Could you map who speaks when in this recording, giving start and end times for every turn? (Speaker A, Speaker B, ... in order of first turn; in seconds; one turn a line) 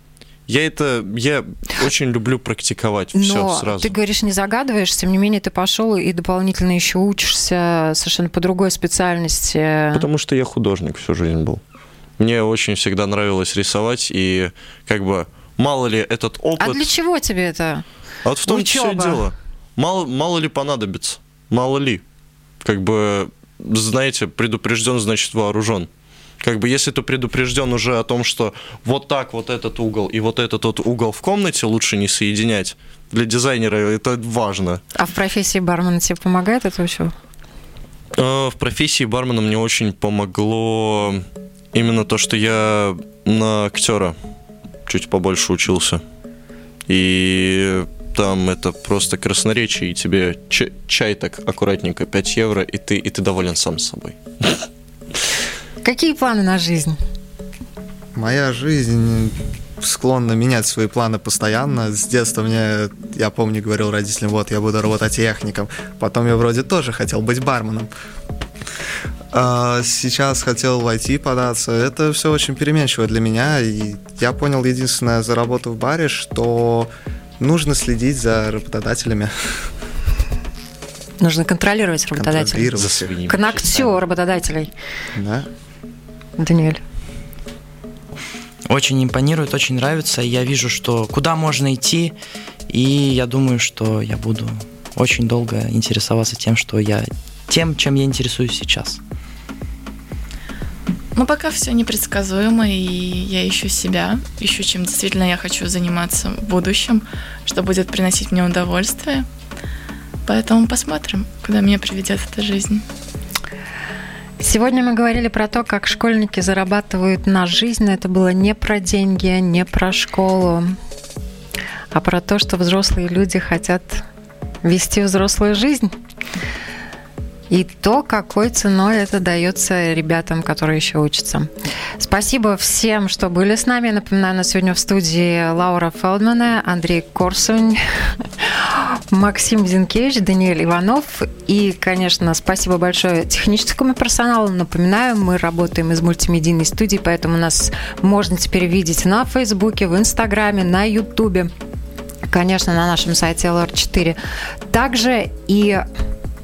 Speaker A: 0.5-3.9
Speaker B: 3.1-10.1
Speaker A: 9.9-11.6
Speaker A: 12.2-16.9
Speaker B: 16.6-17.8
Speaker A: 18.2-22.0
Speaker B: 18.5-19.2
Speaker A: 22.6-25.9
Speaker A: 26.4-34.8
Speaker B: 35.0-37.1
Speaker A: 38.1-44.1
Speaker A: 44.9-46.0
Speaker A: 46.9-54.5
Speaker B: 55.8-57.0
Speaker C: 58.2-67.9
Speaker C: 69.3-79.6
Speaker B: 81.2-82.7
Speaker C: 82.1-83.2
Speaker A: 82.8-83.8
Speaker B: 83.3-84.7
Speaker C: 85.1-85.5
Speaker B: 86.4-86.8
Speaker D: 88.7-92.2
Speaker D: 92.7-99.0
Speaker E: 101.2-109.3
Speaker E: 110.2-112.8
Speaker B: 114.4-120.8
Speaker B: 121.9-124.0
Speaker B: 124.6-125.9
Speaker B: 127.5-151.5
Speaker B: 152.3-154.2
Speaker B: 154.7-155.8